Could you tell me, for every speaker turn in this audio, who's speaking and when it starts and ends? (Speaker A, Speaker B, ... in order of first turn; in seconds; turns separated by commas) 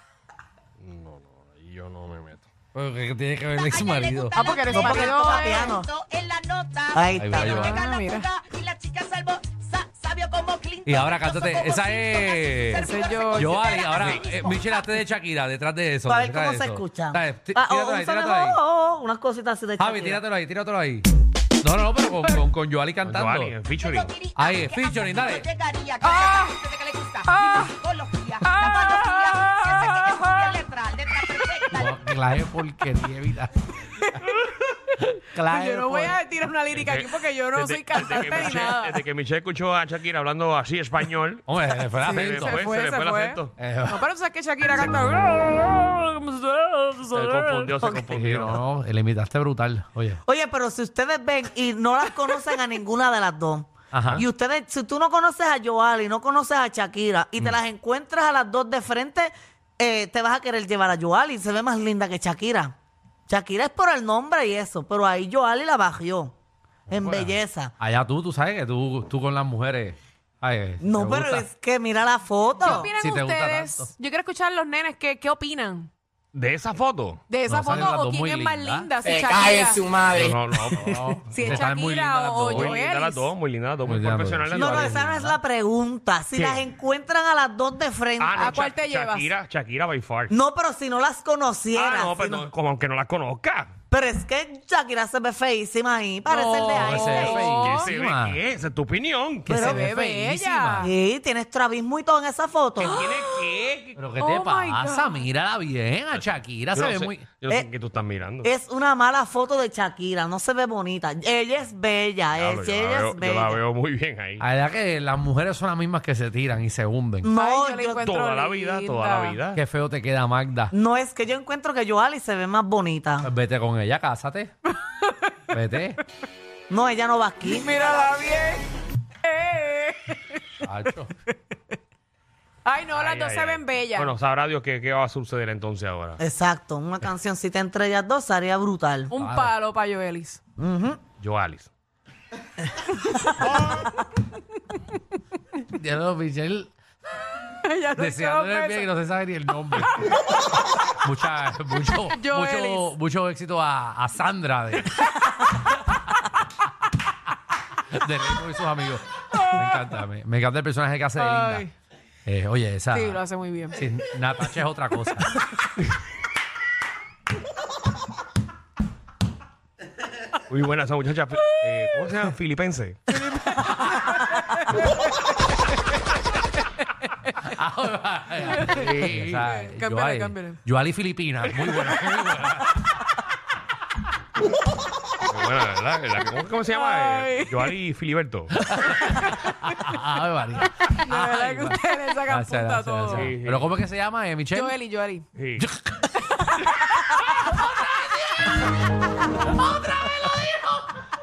Speaker A: 0.8-2.5, Speaker B: 2.7-4.4, Speaker C: 3.6-14.6, Speaker D: 4.3-5.8, Speaker E: 4.6-5.9, Speaker E: 6.9-7.7, Speaker B: 7.1-7.8, Speaker D: 7.4-8.3, Speaker B: 10.9-18.6, Speaker D: 12.8-13.6, Speaker A: 14.0-14.3, Speaker E: 16.1-20.2, Speaker B: 19.8-21.1, Speaker B: 21.6-23.6, Speaker A: 23.1-24.2, Speaker C: 23.8-31.9, Speaker B: 24.4-25.5, Speaker D: 26.0-26.6, Speaker D: 27.3-27.8, Speaker D: 28.4-30.6, Speaker D: 31.2-31.6, Speaker B: 31.7-33.6, Speaker B: 35.3-36.2, Speaker D: 35.4-39.0, Speaker A: 36.7-43.5, Speaker B: 41.5-42.6, Speaker D: 42.0-45.3, Speaker B: 43.6-44.0, Speaker A: 44.8-48.6, Speaker B: 47.0-50.2, Speaker E: 50.2-62.7, Speaker B: 53.9-54.2, Speaker E: 63.3-66.3, Speaker B: 66.9-71.5, Speaker E: 66.9-67.7, Speaker E: 70.8-72.9, Speaker D: 72.6-75.9, Speaker B: 73.0-73.9, Speaker A: 76.3-77.2, Speaker D: 77.3-80.0, Speaker B: 77.5-78.9, Speaker C: 79.1-80.3, Speaker A: 80.1-81.7, Speaker B: 80.7-82.8, Speaker D: 81.3-83.3, Speaker A: 82.5-85.1, Speaker B: 83.8-85.4, Speaker E: 84.5-88.7, Speaker A: 86.3-86.6, Speaker A: 88.2-90.3, Speaker D: 88.3-89.3, Speaker E: 90.3-92.5, Speaker A: 91.7-93.7, Speaker E: 93.9-97.6, Speaker D: 96.2-97.9, Speaker B: 96.6-98.4, Speaker A: 97.1-99.6, Speaker E: 99.5-99.9, Speaker B: 99.5-100.9, Speaker D: 99.5-100.9, Speaker E: 100.8-103.0, Speaker A: 102.8-104.0, Speaker D: 102.8-103.5, Speaker B: 104.0-107.3, Speaker D: 104.2-105.2, Speaker A: 106.1-108.5, Speaker E: 108.4-113.6, Speaker A: 112.3-114.4, Speaker B: 114.4-117.3, Speaker E: 117.2-118.1, Speaker D: 117.3-119.4, Speaker A: 118.0-119.6, Speaker B: 119.5-120.7, Speaker E: 120.7-123.3, Speaker B: 123.2-124.5, Speaker D: 124.9-125.3, Speaker B: 125.5-126.0, Speaker E: 126.7-127.9, Speaker D: 127.4-128.7, Speaker D: 129.2-130.4, Speaker B: 130.6-131.1, Speaker D: 132.7-134.1, Speaker A: 132.9-136.2, Speaker E: 136.2-139.1, Speaker D: 139.1-140.4, Speaker B: 139.2-139.5, Speaker E: 140.6-141.0, Speaker A: 141.2-141.7, Speaker D: 143.7-144.0, Speaker B: 145.6-146.7, Speaker D: 147.6-148.9, Speaker B: 148.0-150.0, Speaker B: 151.0-155.1, Speaker D: 152.1-152.9, Speaker B: 157.9-161.7, Speaker D: 159.3-160.0, Speaker D: 161.2-161.7, Speaker B: 162.3-163.2, Speaker D: 162.9-163.8, Speaker B: 163.8-165.4, Speaker A: 170.5-173.0, Speaker B: 177.4-182.8, Speaker D: 178.5-178.8, Speaker A: 178.7-179.5, Speaker D: 179.4-180.6, Speaker D: 181.6-182.2, Speaker A: 185.2-188.6, Speaker D: 186.7-187.8, Speaker B: 188.5-194.8, Speaker D: 189.0-189.8, Speaker D: 190.9-193.3, Speaker A: 193.1-193.7, Speaker D: 194.5-195.3, Speaker A: 195.4-195.7, Speaker B: 195.6-196.2, Speaker D: 196.3-197.1, Speaker B: 199.5-200.8